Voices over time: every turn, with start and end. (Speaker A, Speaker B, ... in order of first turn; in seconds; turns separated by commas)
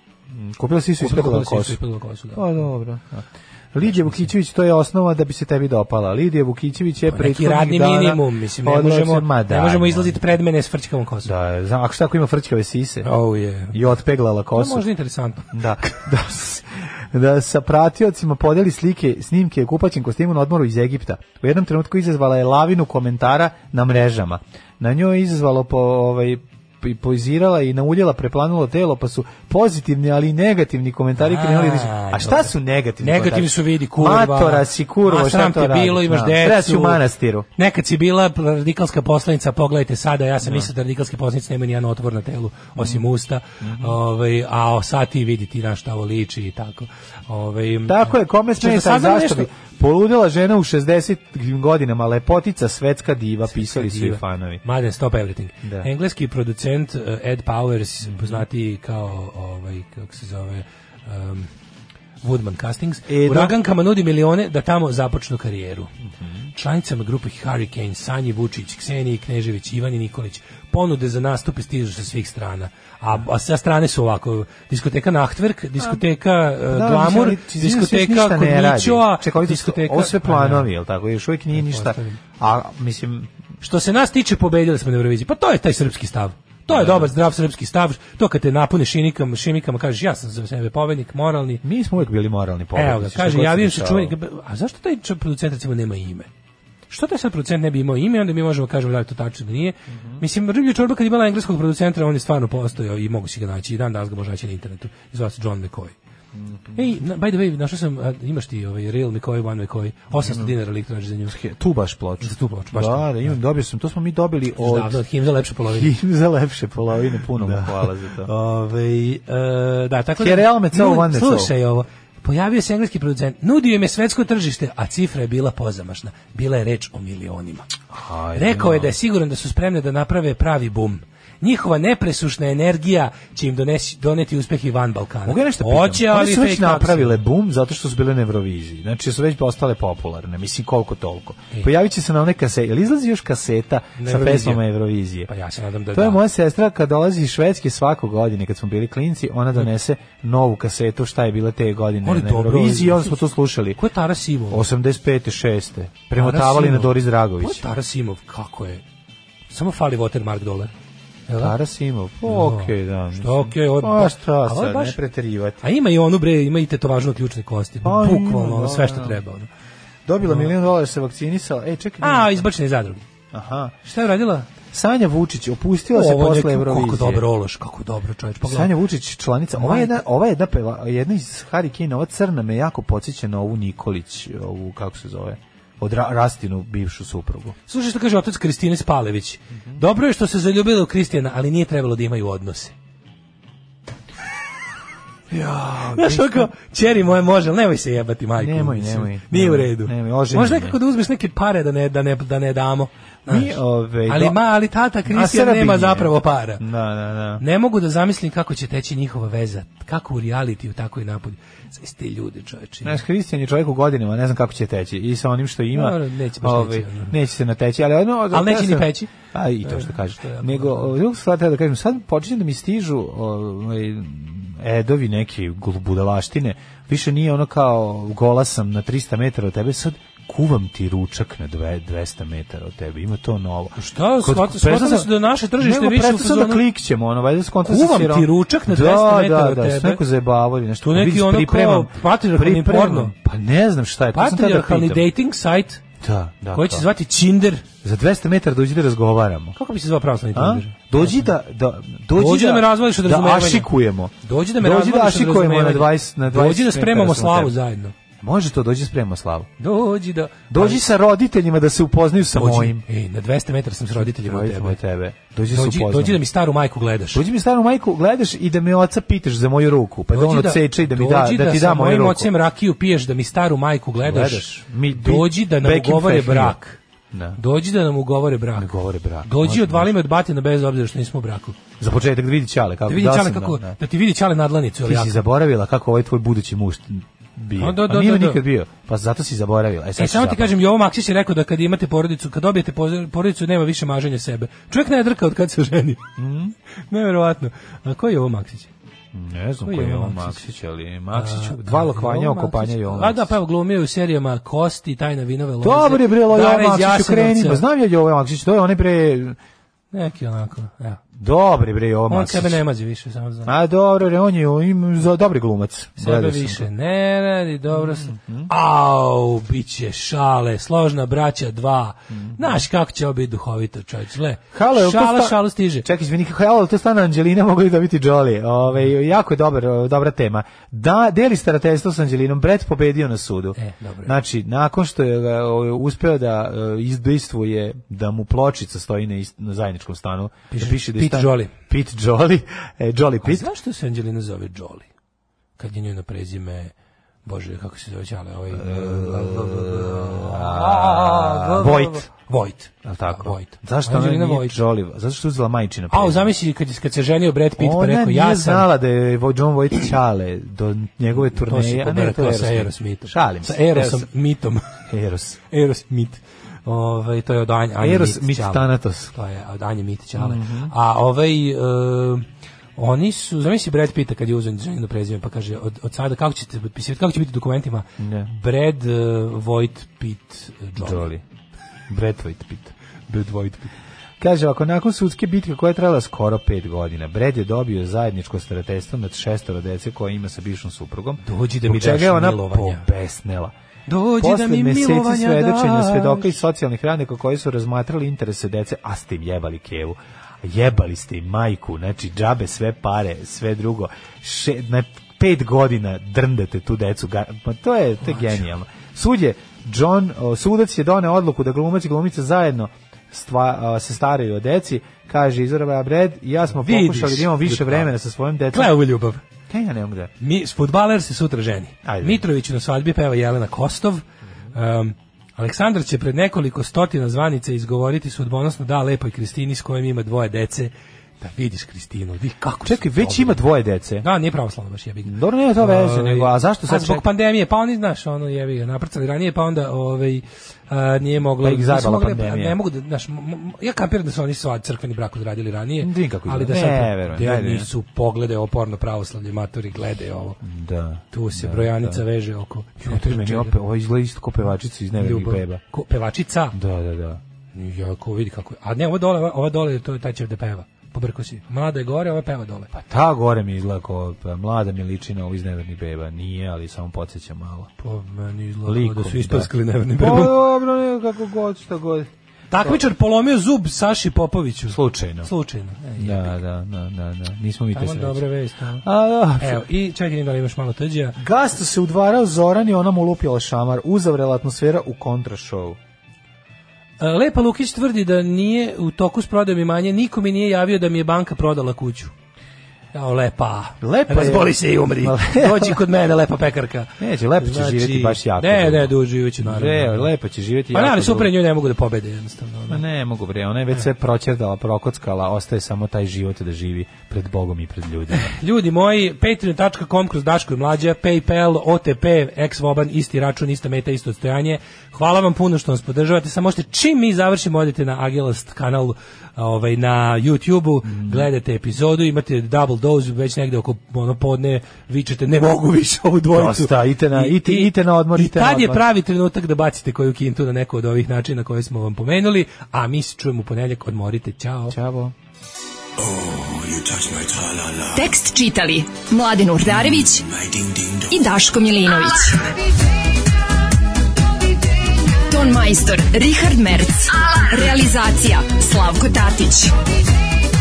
Speaker A: 0.3-1.8, Speaker B: 1.0-2.6, Speaker A: 2.3-10.3, Speaker B: 3.8-4.3, Speaker B: 7.1-11.3, Speaker A: 11.2-13.1, Speaker B: 13.0-13.8, Speaker A: 13.7-14.8, Speaker B: 14.5-15.9, Speaker A: 15.5-37.5, Speaker B: 31.2-32.5, Speaker B: 33.0-37.0, Speaker B: 37.6-49.5, Speaker A: 40.4-40.7, Speaker A: 42.8-43.0, Speaker A: 43.6-44.0, Speaker A: 47.9-54.6, Speaker B: 53.5-61.5, Speaker A: 55.6-55.9, Speaker A: 58.0-58.4, Speaker B: 62.2-65.9, Speaker A: 63.1-63.6, Speaker A: 66.0-66.5, Speaker B: 66.5-80.7, Speaker A: 76.6-83.3, Speaker B: 81.5-82.2, Speaker B: 83.6-91.6, Speaker A: 86.7-87.1, Speaker A: 91.6-94.1, Speaker B: 92.7-96.3, Speaker B: 96.9-105.9, Speaker A: 99.9-100.2, Speaker A: 106.3-106.8, Speaker B: 106.8-111.3, Speaker A: 110.1-110.5, Speaker A: 111.3-115.0, Speaker B: 112.2-113.1, Speaker B: 114.6-115.9, Speaker A: 115.7-118.3, Speaker B: 117.3-127.7, Speaker A: 120.2-121.5, Speaker A: 127.9-128.9, Speaker B: 128.3-137.2, Speaker A: 135.2-145.3, Speaker B: 144.0-144.6, Speaker B: 145.3-146.2, Speaker A: 145.9-153.8, Speaker B: 152.0-153.2, Speaker B: 153.8-154.6, Speaker A: 154.5-157.7, Speaker B: 156.2-158.8, Speaker B: 159.5-160.7, Speaker B: 161.3-161.5, Speaker A: 161.4-165.6, Speaker B: 162.2-165.0, Speaker B: 165.6-169.5, Speaker A: 167.8-169.2, Speaker A: 170.1-172.4, Speaker B: 170.2-170.5, Speaker B: 172.0-173.0, Speaker A: 173.3-173.7, Speaker B: 173.8-174.5, Speaker A: 174.7-177.2, Speaker B: 175.9-178.7, Speaker A: 178.4-187.6, Speaker B: 179.6-180.0, Speaker B: 187.7-192.7, Speaker A: 189.5-189.8, Speaker B: 195.3-206.6, Speaker A: 195.5-196.5, Speaker A: 198.4-200.8, Speaker A: 203.3-204.4, Speaker A: 205.1-207.4, Speaker B: 207.4-213.0, Speaker A: 212.8-245.1, Speaker B: 215.7-217.1, Speaker B: 218.3-219.1, Speaker B: 219.6-220.9, Speaker B: 233.8-236.6, Speaker B: 237.6-240.0, Speaker B: 240.8-243.1, Speaker B: 244.1-245.8, Speaker A: 246.0-246.9, Speaker B: 246.5-247.6, Speaker A: 247.8-249.6, Speaker B: 249.6-251.3, Speaker A: 250.3-257.6, Speaker B: 252.2-253.7, Speaker B: 254.2-257.9, Speaker A: 258.2-259.5, Speaker B: 259.6-260.8, Speaker A: 260.5-262.8, Speaker B: 262.3-264.8, Speaker A: 263.9-266.2, Speaker B: 265.5-267.2, Speaker A: 267.1-272.3, Speaker B: 270.1-276.8, Speaker A: 274.0-276.6, Speaker A: 277.1-277.4, Speaker B: 277.4-281.6, Speaker A: 278.6-279.9, Speaker A: 281.8-283.8, Speaker B: 282.9-285.2, Speaker A: 284.8-290.6, Speaker B: 287.6-288.4, Speaker B: 290.0-296.0, Speaker A: 296.2-296.5, Speaker B: 296.9-298.7, Speaker A: 299.1-303.3, Speaker B: 299.6-300.4, Speaker B: 301.1-307.6, Speaker A: 305.6-309.4, Speaker B: 309.9-311.0, Speaker A: 311.1-312.6, Speaker B: 312.1-313.5, Speaker A: 313.4-316.7, Speaker B: 316.0-325.9, Speaker A: 317.7-318.5, Speaker A: 322.1-322.6, Speaker A: 324.5-343.5, Speaker B: 333.6-334.1, Speaker B: 340.5-341.5, Speaker B: 343.2-344.9, Speaker B: 345.6-346.7, Speaker B: 347.2-354.6, Speaker A: 348.5-352.1, Speaker A: 352.8-356.3, Speaker B: 355.9-358.7, Speaker A: 357.6-364.1, Speaker B: 361.4-364.6, Speaker A: 364.9-365.4, Speaker B: 365.5-372.2, Speaker A: 367.8-369.1, Speaker A: 370.1-370.7, Speaker B: 372.8-381.1, Speaker A: 378.0-378.3, Speaker A: 380.8-381.2, Speaker A: 381.9-382.7, Speaker B: 383.1-383.7, Speaker A: 384.2-393.5, Speaker B: 391.2-392.9, Speaker B: 393.9-396.3, Speaker A: 394.2-418.7, Speaker B: 408.0-408.5, Speaker B: 416.5-417.9, Speaker B: 418.5-419.2, Speaker A: 419.5-420.1, Speaker B: 420.2-433.4, Speaker A: 421.8-422.2, Speaker A: 432.6-434.1, Speaker B: 434.0-450.4, Speaker A: 435.0-437.0, Speaker A: 441.4-442.6, Speaker A: 445.8-447.7, Speaker A: 450.4-452.0, Speaker B: 451.1-453.5, Speaker A: 452.8-455.6, Speaker B: 454.9-456.6, Speaker A: 456.5-457.2, Speaker B: 457.5-462.7, Speaker A: 462.7-467.7, Speaker B: 467.8-470.3, Speaker A: 468.6-472.8, Speaker B: 472.5-476.4, Speaker A: 474.7-475.3, Speaker A: 476.0-478.2, Speaker B: 477.7-478.8, Speaker A: 478.8-479.6, Speaker B: 479.4-481.2, Speaker A: 481.2-485.8, Speaker B: 487.0-492.1, Speaker B: 492.9-500.1, Speaker A: 493.8-495.8, Speaker A: 497.0-501.3, Speaker B: 500.7-502.8, Speaker A: 502.7-508.3, Speaker B: 508.1-534.8, Speaker A: 520.8-521.3, Speaker A: 526.3-528.8, Speaker A: 534.7-535.1, Speaker C: 537.9-540.3, Speaker C: 541.1-542.5, Speaker C: 545.2-549.7